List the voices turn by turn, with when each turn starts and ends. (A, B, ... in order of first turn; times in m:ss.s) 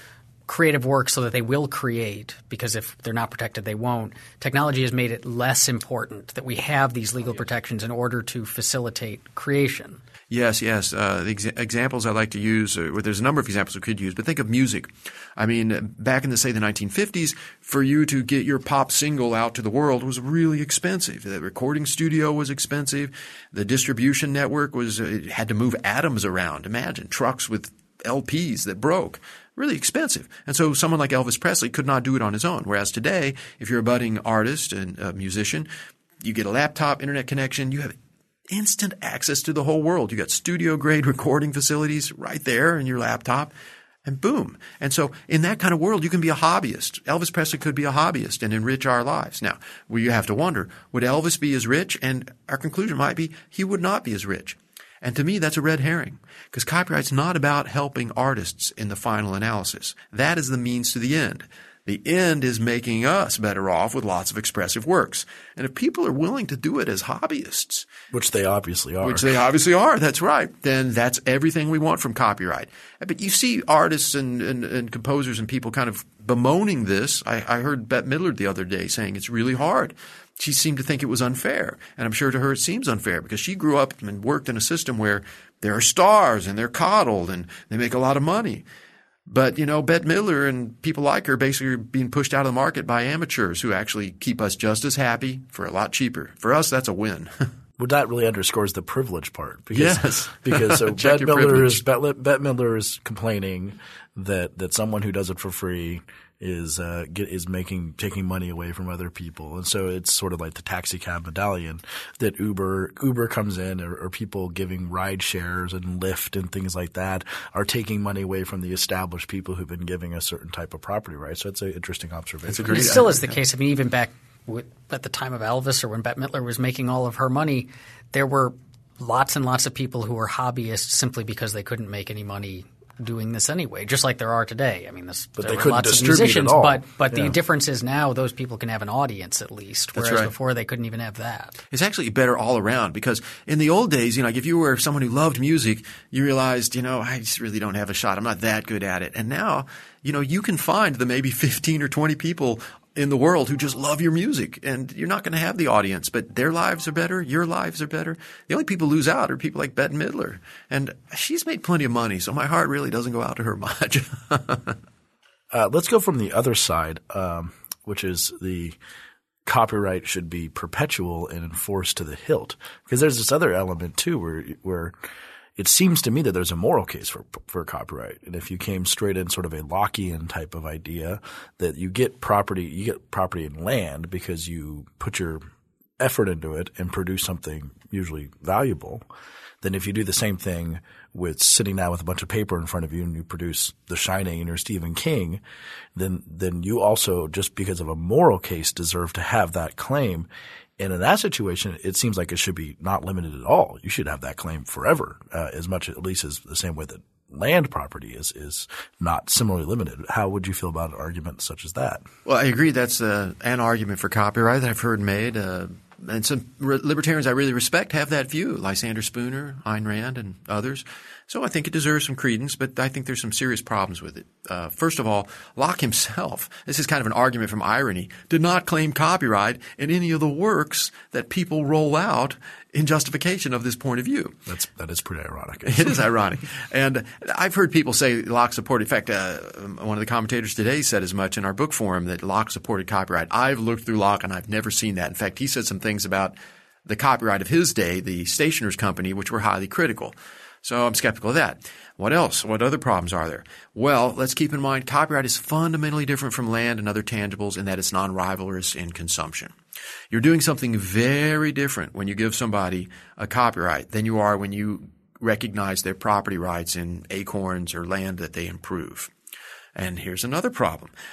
0:00.5-0:10.0 A
0:10.3-0:35.7 B
0:36.2-0:37.9 B
0:38.5-0:43.5 B
0:44.0-1:07.9 B
1:08.1-1:09.3 C
1:09.0-1:28.6 B
1:29.3-1:37.5 B
1:37.8-2:03.1 C
1:39.7-1:41.8 B
2:02.5-2:03.2 B
2:02.7-2:21.6 A
2:15.4-2:17.4 C
2:19.9-2:20.3 B
2:21.7-2:44.8 B
2:45.5-2:48.8 C
2:49.4-2:54.9 C
2:55.6-3:05.4 C
3:06.0-3:09.0 C
3:09.6-3:15.4 C
3:15.9-3:32.0 C
3:32.3-3:54.4 B
3:54.5-3:56.1 C
3:55.6-4:06.3 B
4:06.9-4:19.5 B
4:20.1-4:29.1 B
4:29.7-4:30.9 B